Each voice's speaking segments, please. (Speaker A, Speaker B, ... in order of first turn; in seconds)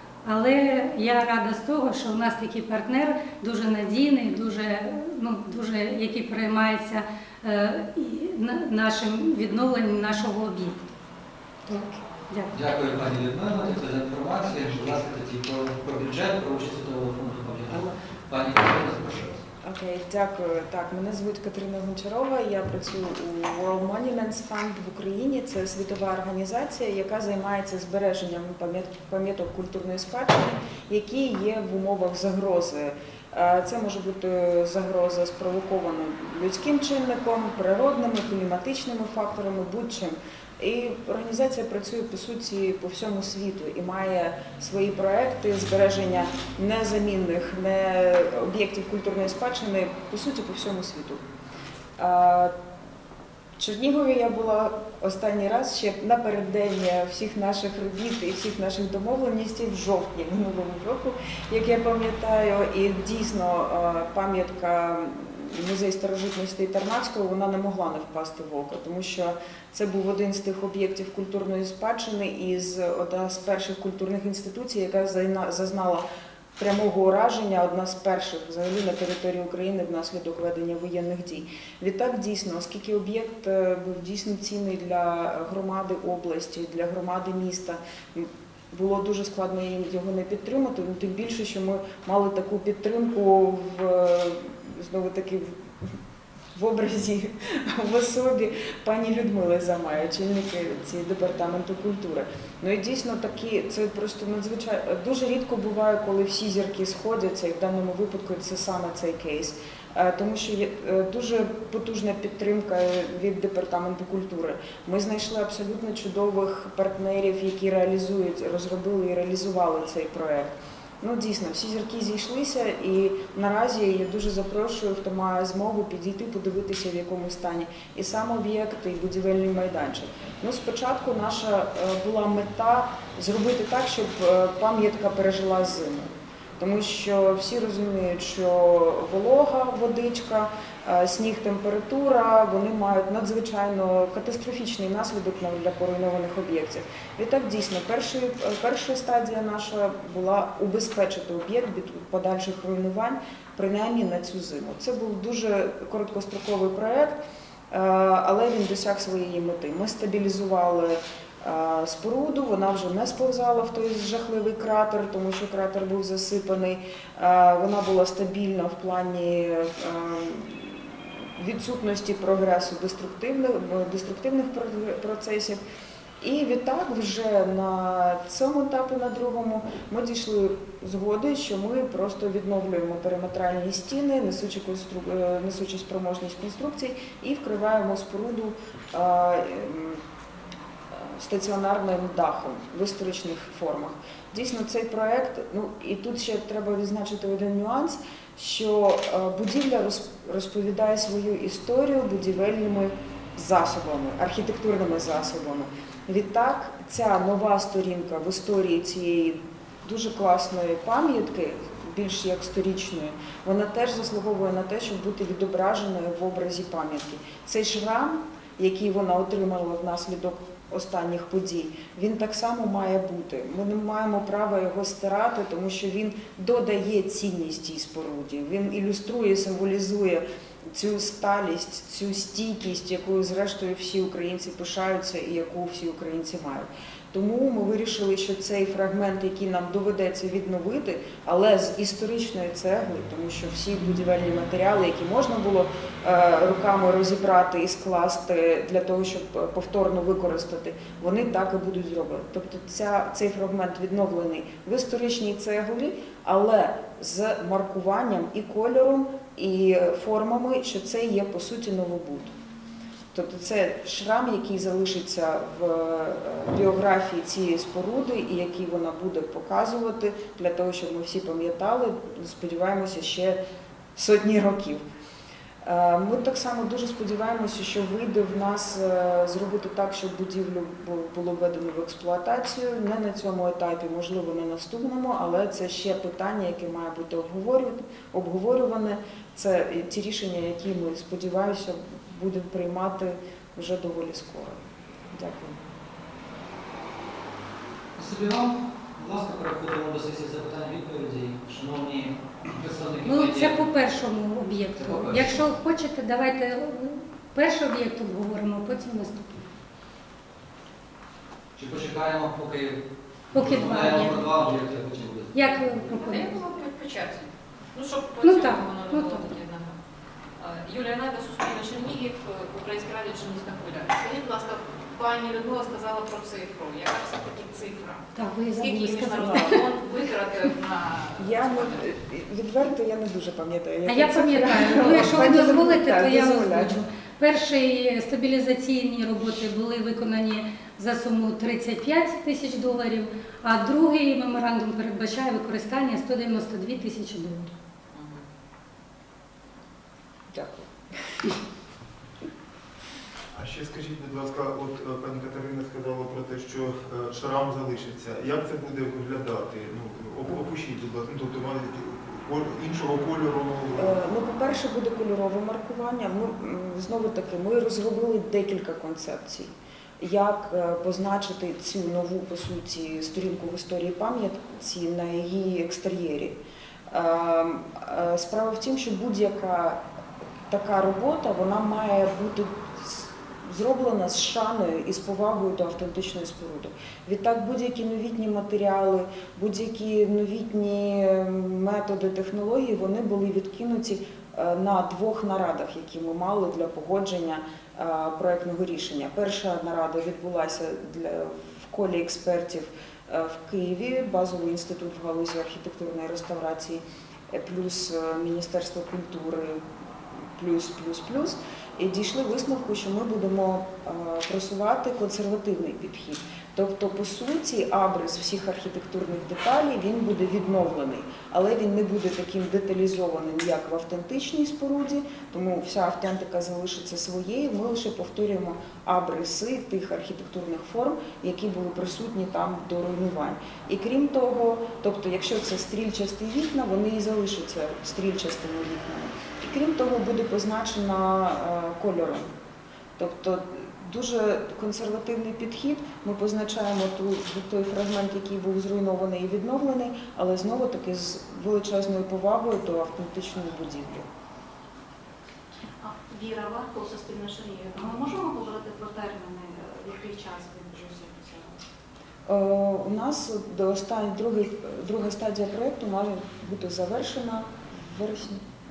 Speaker A: 0.2-10.9, 11.7-12.5, 303.1-309.5, 313.3-314.2, 315.3-316.3, 318.2-319.3, 328.1-329.6, 333.9-347.5
Speaker B: 12.5-19.4, 298.0-303.6, 304.8-305.5, 311.6-312.8, 313.3-315.7
Speaker C: 19.6-51.2, 52.0-52.6, 53.6-76.0, 76.6-96.0, 96.5-157.2, 157.7-175.6, 176.2-190.0, 190.9-262.3, 263.1-273.4, 273.9-274.8, 275.6-295.6, 328.6-329.6, 331.2-336.8, 350.3-351.2, 363.8-376.4, 376.9-379.8, 380.5-442.3, 443.0-454.1, 462.3-468.4
Speaker D: 315.9-319.8, 320.4-331.9, 347.9-348.2
Speaker E: 353.3-363.9
Speaker F: 455.8-461.6